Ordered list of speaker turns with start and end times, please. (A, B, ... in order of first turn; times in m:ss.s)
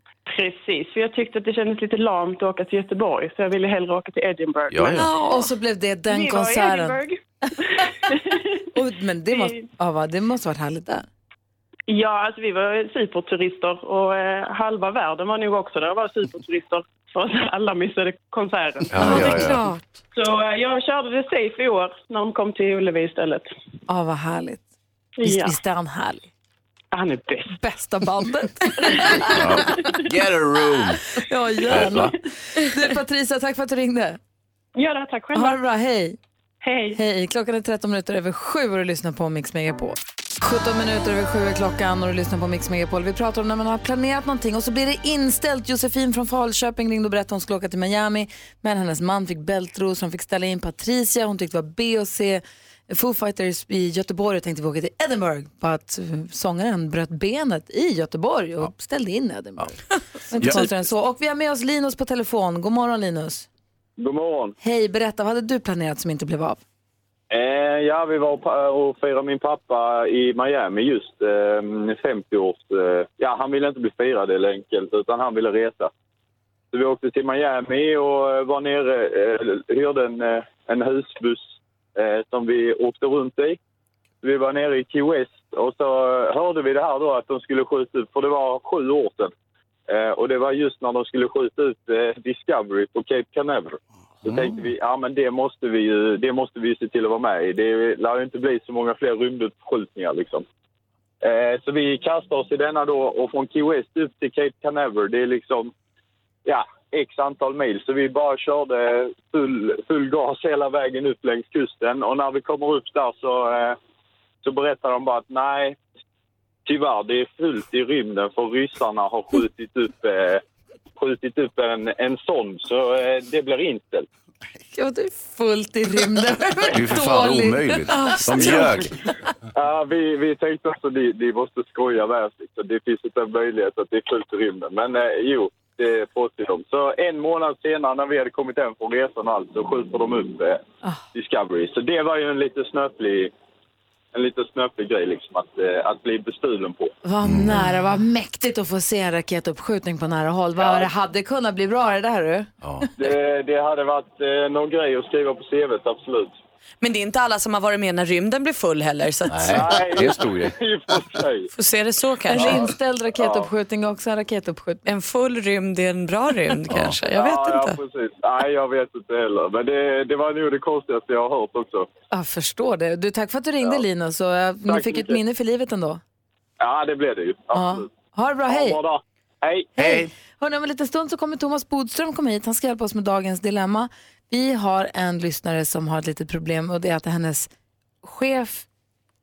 0:00.3-0:05.5 A
0:04.7-0:05.1 B
0:05.2-0:07.0 C
0:06.1-0:07.2 A
0:07.8-0:08.4 A
0:08.7-0:11.0 C
0:09.3-0:09.7 A
0:11.9-0:19.2 A
0:18.9-0:19.6 B
0:19.0-0:19.8 D
0:19.2-0:19.5 C
0:20.1-0:23.5 A
0:23.9-0:24.6 C
0:25.2-0:25.6 A
0:25.2-0:26.3 C
0:26.9-0:27.5 A
0:27.5-0:29.8 C
0:29.2-0:31.0 B
0:31.2-0:34.2 C
0:31.6-0:32.1 B
0:34.7-0:35.6 A
0:35.3-0:36.2 C
0:36.6-0:37.0 A
0:36.9-0:59.8 C
1:00.3-1:03.5 C
1:04.0-1:04.5 E
1:04.6-1:06.6 C
1:07.3-1:15.9 E
1:16.7-1:23.6 E
1:24.2-1:29.3 E
1:29.9-1:40.4 E
1:41.2-1:45.7 E
1:46.4-1:53.8 E
1:54.4-1:55.8 E
1:56.6-2:00.4 E
2:01.0-2:04.1 E
2:04.7-2:08.6 C
2:06.7-2:08.9 B
2:07.9-2:08.8 D
2:09.5-2:23.3 E
2:24.1-2:26.9 E
2:27.0-2:32.5 C
2:27.2-2:27.5 B
2:30.6-2:30.9 E
2:33.0-2:36.3 E
2:36.8-2:39.7 D
2:39.3-2:40.6 B
2:39.5-2:41.5 E
2:41.5-2:42.6 D
2:42.3-2:44.8 C
2:43.1-2:43.5 E
2:44.8-2:47.8 D
2:46.7-2:46.9 B
2:47.1-2:51.9 E
2:52.1-2:56.0 C
2:54.7-2:55.2 E
2:56.6-2:57.9 E
2:57.5-2:58.8 C
2:58.5-2:59.7 E
2:59.8-3:07.5 C
2:59.8-3:00.1 B
3:08.0-3:08.6 C